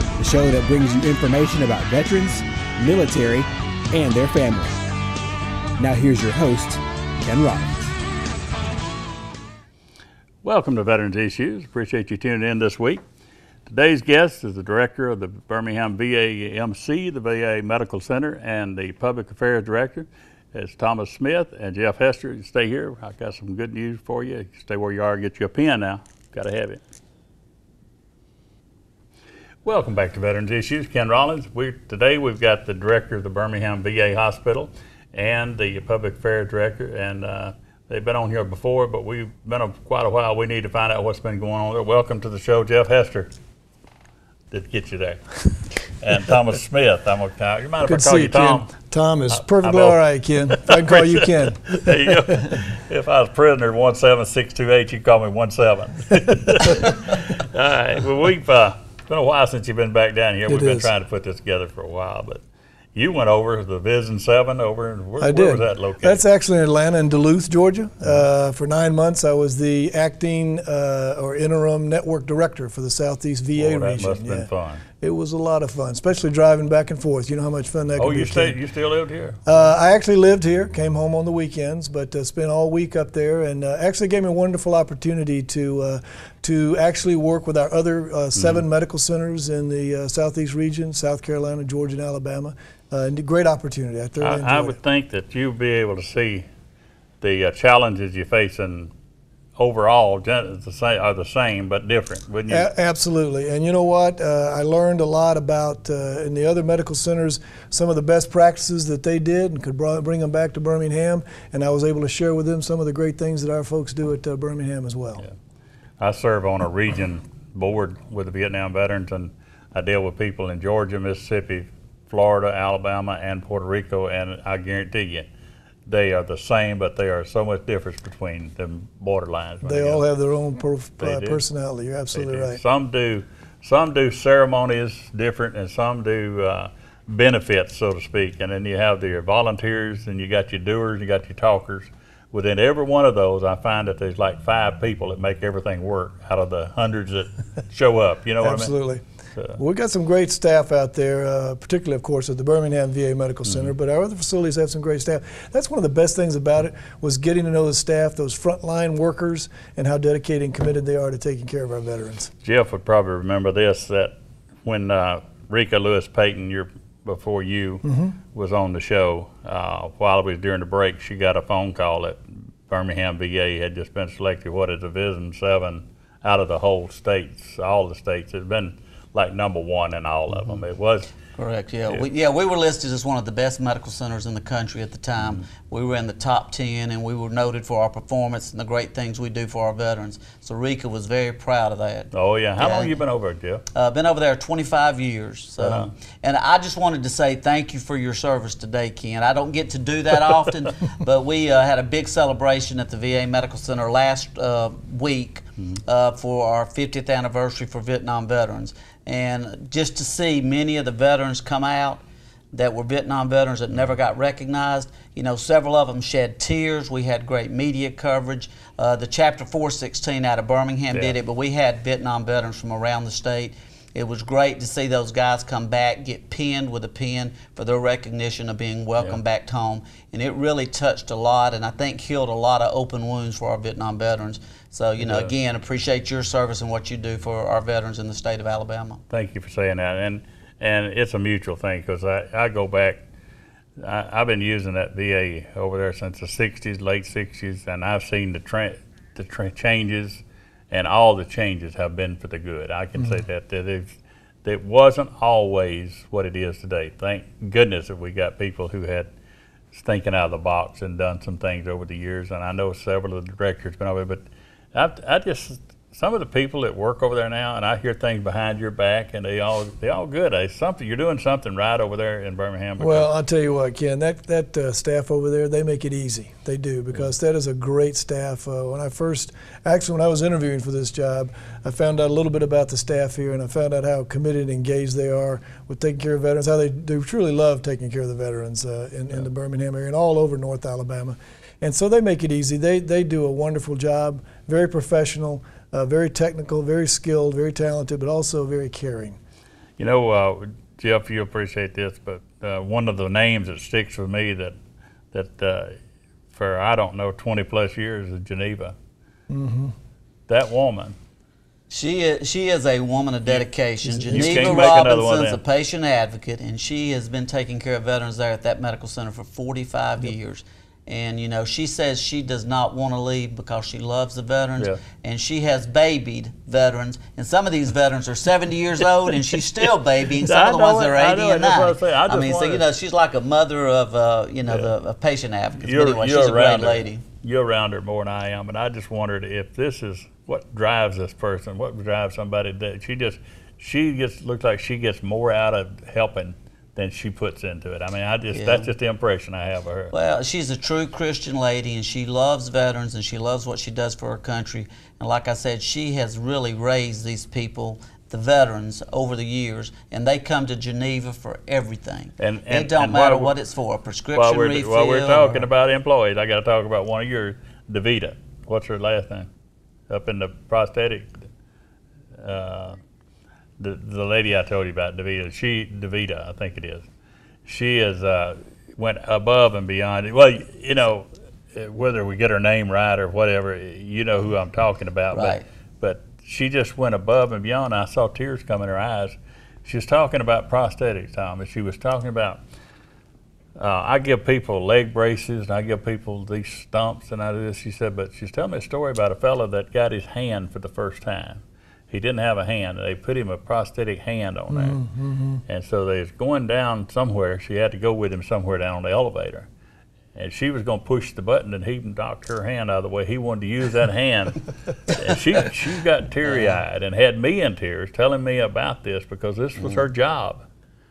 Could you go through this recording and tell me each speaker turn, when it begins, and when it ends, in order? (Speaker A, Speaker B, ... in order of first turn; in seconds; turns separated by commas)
Speaker A: 0.2-4.8, Speaker A: 5.8-7.8, Speaker B: 10.4-13.0, Speaker B: 13.7-26.8, Speaker B: 29.6-43.3, Speaker B: 44.5-48.7, Speaker C: 47.8-52.6, Speaker B: 49.3-62.4, Speaker C: 60.5-60.9, Speaker B: 62.9-66.2, Speaker C: 65.2-74.5, Speaker B: 73.5-74.8, Speaker C: 75.0-78.6, Speaker B: 78.0-79.5, Speaker C: 79.5-94.8, Speaker B: 88.4-88.6, Speaker B: 94.2-96.5, Speaker B: 97.2-98.9, Speaker B: 99.6-102.7, Speaker C: 102.5-115.2, Speaker B: 116.0-125.3, Speaker B: 125.9-130.0, Speaker C: 129.6-132.6, Speaker B: 131.0-131.4, Speaker B: 132.1-148.7, Speaker C: 148.4-149.0, Speaker C: 149.6-162.3, Speaker B: 153.5-153.7, Speaker B: 162.4-181.1, Speaker C: 167.8-168.2, Speaker D: 181.3-192.9, Speaker B: 192.1-193.6, Speaker D: 193.7-212.0, Speaker B: 195.6-195.9, Speaker D: 212.5-239.0, Speaker B: 235.0-235.3, Speaker B: 239.1-243.0, Speaker B: 243.8-259.1, Speaker B: 259.7-264.2, Speaker B: 264.7-273.1, Speaker C: 272.8-299.2, Speaker B: 299.8-304.6, Speaker B: 305.1-305.8, Speaker B: 306.3-308.7, Speaker C: 309.3-309.7, Speaker B: 310.3-310.9, Speaker D: 311.7-337.0, Speaker C: 313.9-314.7, Speaker B: 314.1-315.4, Speaker B: 330.2-332.6, Speaker B: 335.6-349.9, Speaker D: 348.3-348.7, Speaker D: 349.9-365.5, Speaker B: 362.2-363.3, Speaker B: 364.1-369.3, Speaker B: 369.9-371.1, Speaker B: 372.2-372.8, Speaker B: 373.6-376.9, Speaker B: 377.4-392.4, Speaker D: 385.1-385.4, Speaker B: 393.6-404.8, Speaker C: 404.5-405.4, Speaker B: 405.4-409.5, Speaker B: 410.1-420.4